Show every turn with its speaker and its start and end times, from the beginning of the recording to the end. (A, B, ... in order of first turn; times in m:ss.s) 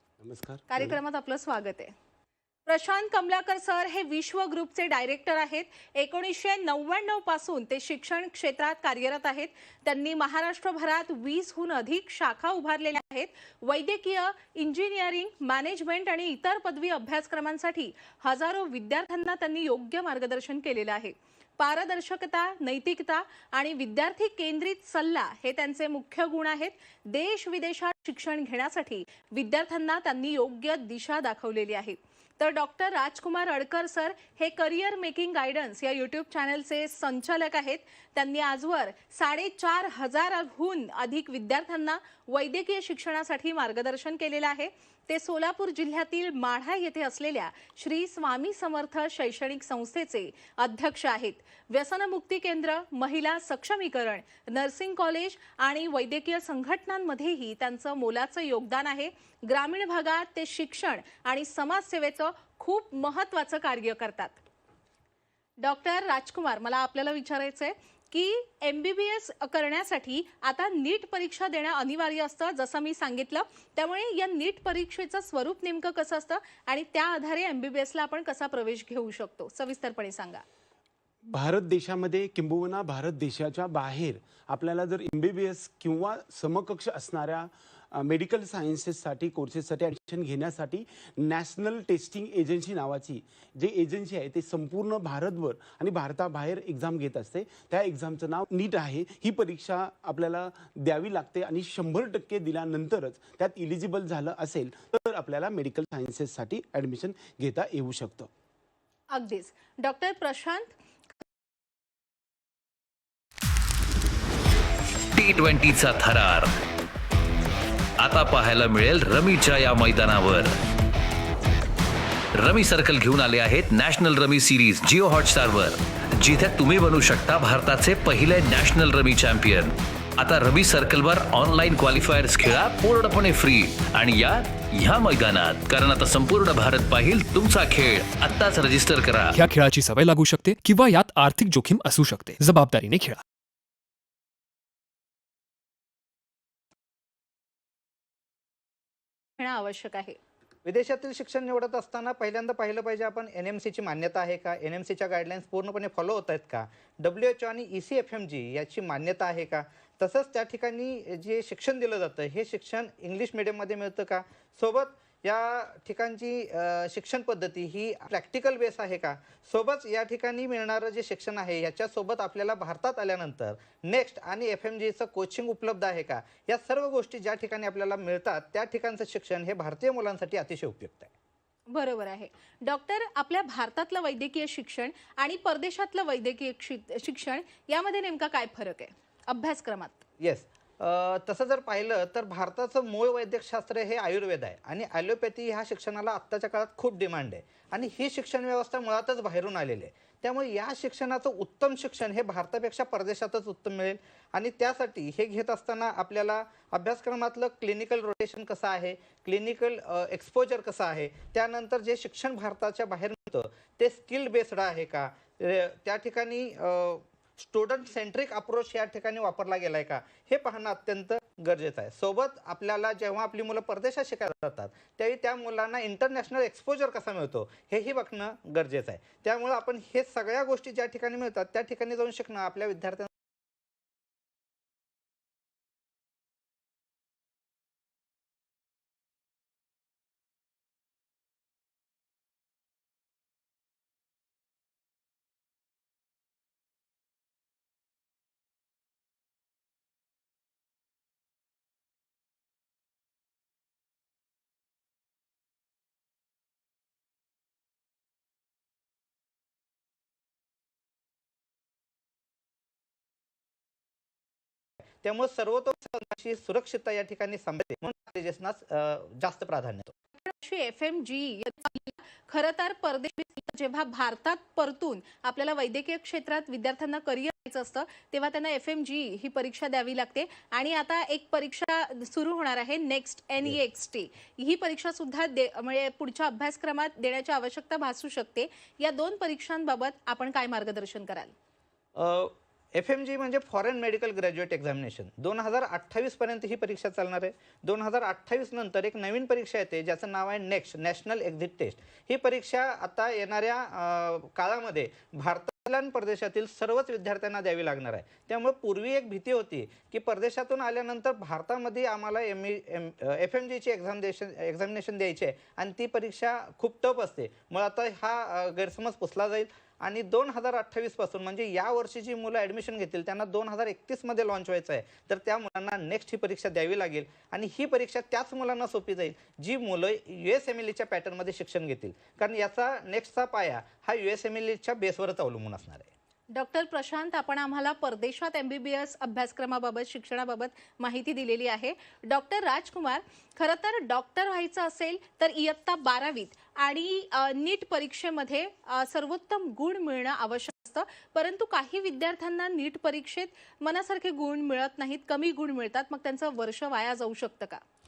0:00.2-0:01.0 A
0:00.7-0:01.9 B
0:02.7-1:04.4 B
1:05.6-1:20.4 B
1:21.3-1:48.3 A
1:49.1-1:50.7 B
1:55.1-1:56.5 C
1:58.0-2:00.6 C
2:02.4-2:19.4 C
2:19.4-2:23.2 D
2:29.4-2:30.2 B
2:30.6-3:01.1 E
3:01.7-3:10.0 B
3:10.2-3:53.1 E
4:25.0-4:29.9 E
4:30.2-4:51.3 B
4:52.0-5:35.9 E
5:36.3-5:57.6 B